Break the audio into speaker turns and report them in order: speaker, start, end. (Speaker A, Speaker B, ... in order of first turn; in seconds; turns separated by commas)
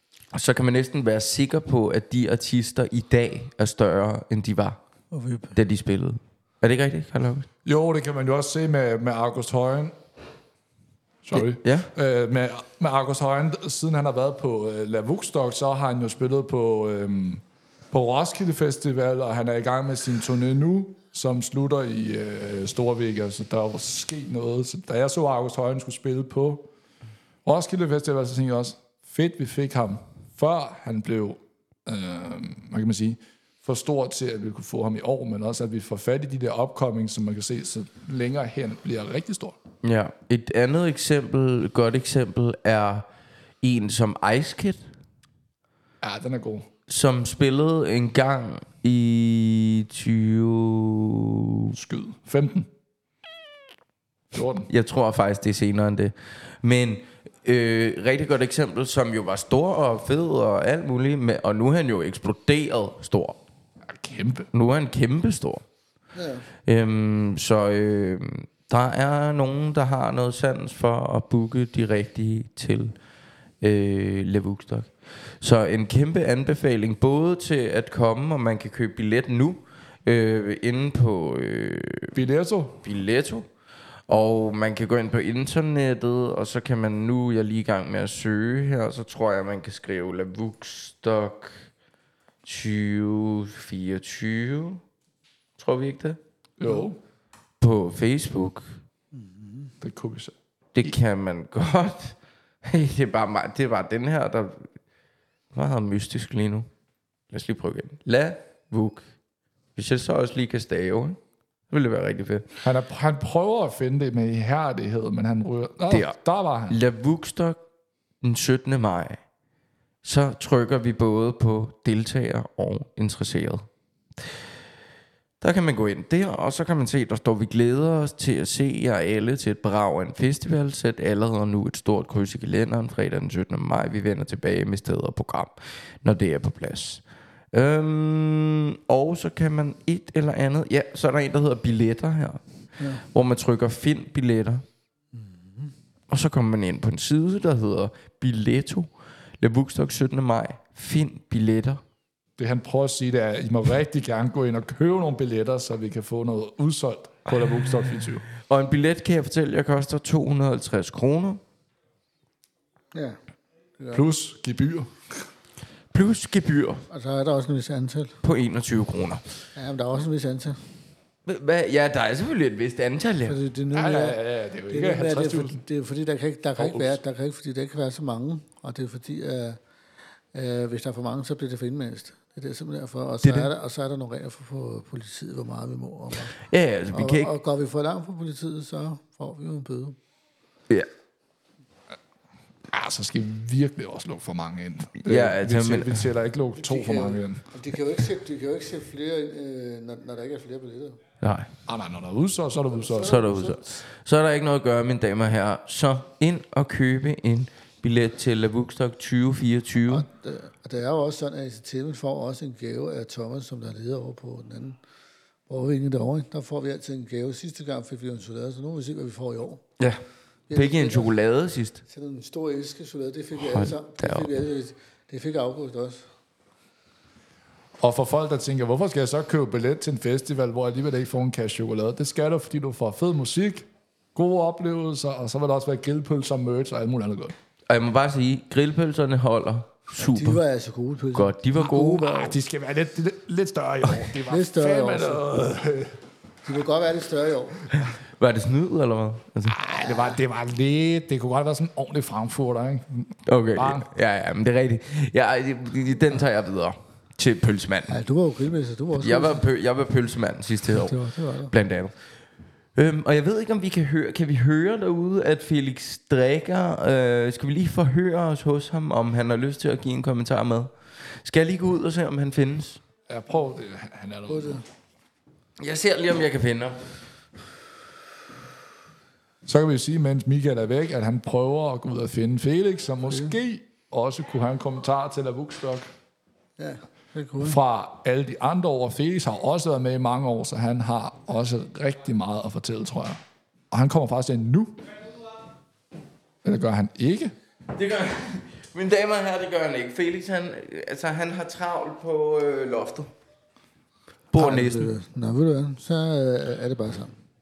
Speaker A: 0.3-4.8, Speaker B: 5.1-5.6, Speaker A: 5.5-7.5, Speaker C: 7.7-9.9, Speaker C: 11.2-26.7, Speaker A: 11.3-11.9, Speaker C: 27.4-39.6, Speaker A: 39.8-43.0, Speaker A: 43.6-44.8, Speaker C: 46.0-46.7, Speaker A: 46.9-51.8, Speaker C: 51.7-52.7, Speaker C: 54.3-54.7, Speaker A: 54.7-63.4, Speaker C: 63.9-64.5, Speaker A: 64.5-65.6, Speaker B: 66.1-66.5, Speaker A: 66.7-72.9, Speaker A: 73.6-82.2, Speaker C: 82.2-82.9, Speaker A: 82.8-83.5, Speaker A: 84.1-91.7, Speaker A: 92.5-94.8, Speaker A: 95.6-96.2, Speaker C: 96.6-97.0, Speaker B: 96.6-96.9, Speaker A: 97.6-98.7, Speaker B: 99.1-99.8, Speaker C: 99.8-100.9, Speaker A: 100.8-104.7, Speaker A: 105.5-106.7, Speaker A: 107.3-109.1, Speaker A: 109.8-111.2, Speaker A: 111.7-112.6, Speaker C: 112.6-116.8, Speaker A: 115.9-116.2, Speaker A: 116.7-117.6, Speaker A: 118.2-119.2, Speaker A: 120.0-123.7, Speaker A: 125.4-142.4, Speaker B: 142.8-143.0, Speaker A: 143.0-144.6, Speaker B: 145.1-145.7, Speaker A: 146.1-148.9, Speaker A: 149.4-151.8, Speaker C: 152.4-158.2, Speaker A: 158.4-161.4, Speaker B: 163.8-164.1, Speaker C: 163.9-165.0, Speaker A: 165.9-166.8, Speaker B: 166.9-168.2, Speaker A: 168.2-169.2, Speaker B: 169.6-170.6, Speaker A: 171.3-173.4, Speaker B: 173.3-174.2, Speaker C: 173.7-175.6, Speaker B: 174.7-179.6, Speaker C: 176.6-177.0, Speaker B: 180.3-186.3, Speaker A: 183.2-183.5, Speaker A: 186.3-187.3, Speaker B: 186.9-190.0, Speaker C: 192.7-197.5, Speaker A: 195.0-196.1, Speaker B: 196.5-201.0, Speaker A: 201.2-201.5, Speaker C: 201.7-203.2, Speaker B: 202.7-203.8, Speaker A: 203.0-210.1, Speaker B: 209.8-214.8, Speaker B: 215.5-219.6, Speaker B: 220.5-221.1, Speaker A: 220.5-221.8, Speaker B: 221.9-226.1, Speaker A: 223.4-224.3, Speaker C: 227.8-237.3, Speaker A: 237.7-240.4, Speaker B: 240.1-242.4, Speaker A: 241.1-242.1, Speaker C: 242.0-246.0, Speaker B: 244.2-245.3, Speaker B: 246.4-247.7, Speaker A: 247.7-249.9, Speaker C: 249.5-253.9, Speaker A: 253.3-258.0, Speaker B: 257.9-259.4, Speaker A: 258.9-261.9, Speaker B: 260.7-261.6, Speaker A: 262.8-270.7, Speaker A: 271.2-272.8, Speaker C: 273.1-274.6, Speaker B: 274.3-274.6, Speaker A: 275.6-276.9, Speaker C: 279.5-285.9, Speaker B: 283.1-283.4, Speaker B: 286.6-287.6, Speaker C: 287.4-294.9, Speaker C: 296.4-297.3, Speaker A: 297.7-303.1, Speaker A: 304.3-304.9, Speaker B: 304.4-307.1